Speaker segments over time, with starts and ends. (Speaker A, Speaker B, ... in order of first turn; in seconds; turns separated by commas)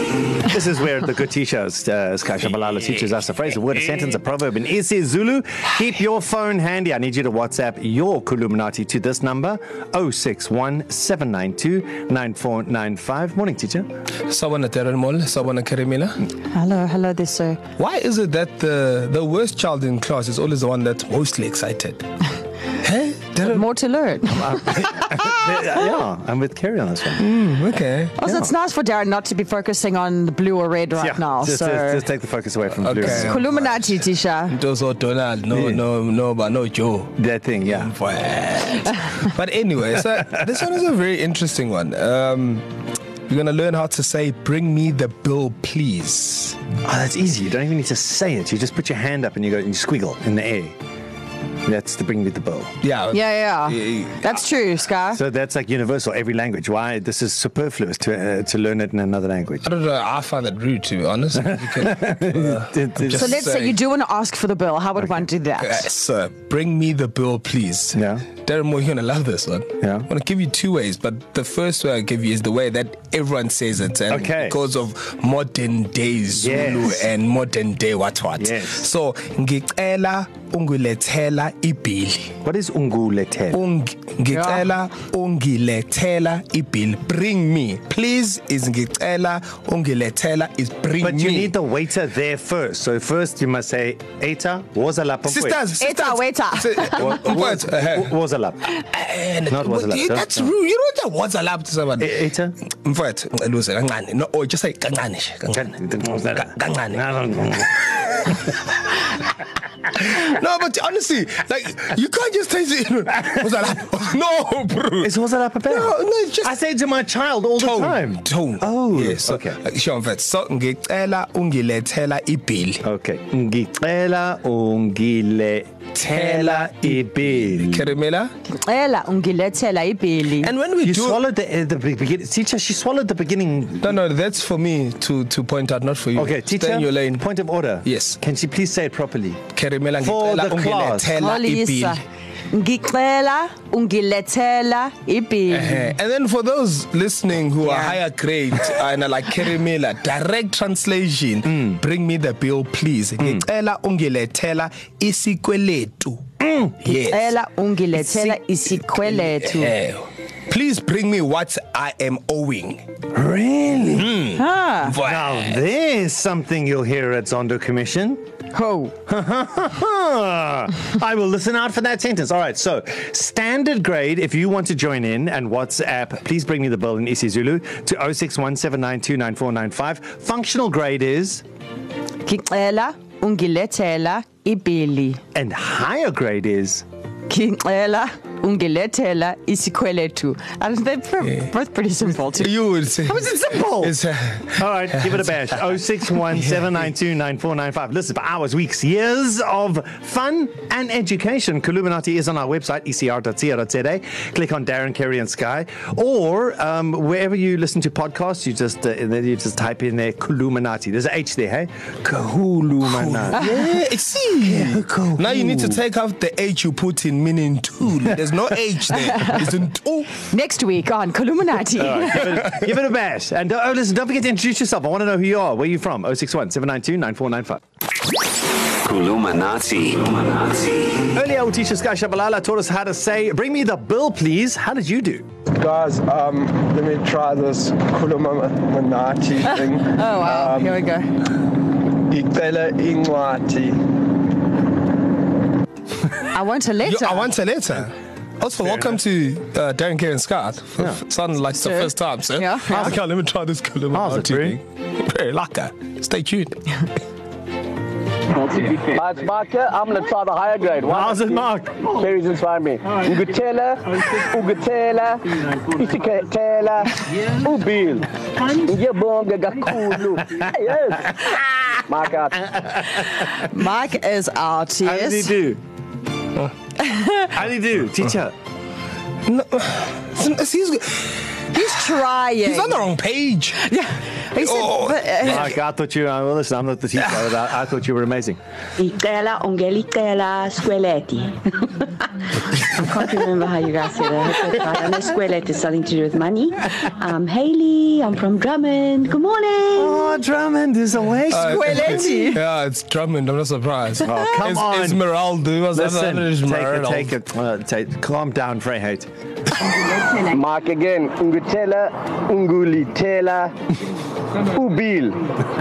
Speaker A: 0.4-13.9, Speaker B: 14.3-16.2, Speaker C: 16.5-17.6, Speaker B: 17.8-22.0, Speaker B: 22.8-23.7, Speaker C: 23.4-24.5, Speaker A: 24.3-27.2, Speaker B: 27.2-28.1, Speaker C: 28.2-32.0, Speaker A: 28.2-28.5, Speaker A: 31.0-33.4, Speaker B: 32.8-42.6, Speaker C: 33.1-34.6, Speaker A: 35.5-35.8, Speaker A: 37.2-37.9, Speaker B: 43.3-46.6, Speaker A: 46.8-50.8, Speaker A: 51.7-52.7, Speaker B: 52.8-54.5, Speaker C: 53.1-55.2, Speaker A: 55.1-59.7, Speaker B: 59.6-63.8, Speaker A: 61.8-63.4, Speaker C: 63.1-65.8, Speaker B: 65.6-82.3, Speaker A: 67.9-68.2, Speaker A: 69.8-70.0, Speaker A: 74.1-74.6, Speaker A: 76.3-77.1, Speaker A: 78.3-78.9, Speaker A: 82.4-83.6, Speaker B: 83.5-91.5, Speaker C: 84.3-84.6, Speaker A: 91.0-95.6, Speaker B: 95.2-98.1, Speaker C: 95.8-97.2, Speaker A: 97.0-98.7, Speaker B: 98.9-102.2, Speaker A: 99.5-100.5, Speaker A: 102.0-102.5, Speaker B: 102.8-107.0, Speaker A: 105.5-107.7, Speaker B: 107.7-109.0, Speaker B: 109.8-115.1, Speaker A: 115.0-119.6, Speaker B: 115.7-116.5, Speaker B: 117.6-122.8, Speaker A: 122.8-127.9, Speaker B: 126.0-128.3, Speaker C: 128.6-130.5, Speaker B: 130.4-131.2, Speaker A: 130.8-133.9, Speaker B: 133.8-137.3, Speaker A: 136.1-139.4, Speaker B: 137.8-138.2, Speaker B: 139.5-142.0, Speaker A: 140.0-141.2, Speaker C: 141.2-145.9, Speaker B: 145.5-156.2, Speaker C: 147.6-148.0, Speaker A: 156.4-156.8, Speaker B: 156.8-157.3, Speaker C: 156.9-159.7, Speaker B: 157.9-158.4, Speaker B: 158.9-162.8, Speaker A: 163.1-164.3, Speaker B: 164.0-165.6, Speaker C: 164.4-164.9, Speaker A: 165.0-168.2, Speaker C: 168.5-168.9, Speaker A: 169.1-181.4, Speaker C: 182.2-185.2, Speaker A: 185.3-186.8, Speaker C: 187.3-192.5, Speaker B: 192.3-195.4, Speaker A: 193.1-193.9, Speaker A: 194.5-213.8, Speaker B: 212.8-220.3, Speaker A: 214.4-215.8, Speaker A: 218.1-218.3, Speaker C: 220.3-222.3, Speaker A: 221.8-227.6, Speaker D: 228.8-230.9, Speaker A: 231.1-235.3, Speaker E: 235.6-240.8, Speaker C: 239.5-241.1, Speaker E: 242.1-243.8, Speaker C: 246.3-247.3, Speaker B: 246.8-256.8, Speaker A: 248.6-249.0, Speaker C: 251.6-252.9, Speaker A: 252.7-253.0, Speaker A: 253.9-254.6, Speaker D: 258.6-268.1, Speaker A: 260.9-261.9, Speaker D: 268.6-271.1, Speaker D: 271.9-272.3, Speaker A: 272.5-273.1, Speaker C: 273.4-275.3, Speaker A: 274.8-275.6, Speaker C: 276.9-277.2, Speaker A: 277.3-278.3, Speaker B: 279.2-281.8, Speaker C: 281.5-282.9, Speaker B: 282.4-283.6, Speaker C: 283.6-285.6, Speaker B: 284.3-285.5, Speaker A: 285.2-288.4, Speaker F: 288.8-292.0, Speaker F: 292.6-300.0, Speaker A: 299.8-302.2, Speaker B: 301.3-307.1, Speaker C: 301.4-302.4, Speaker A: 304.0-305.0, Speaker A: 305.7-309.1, Speaker D: 310.3-313.5, Speaker D: 314.5-315.2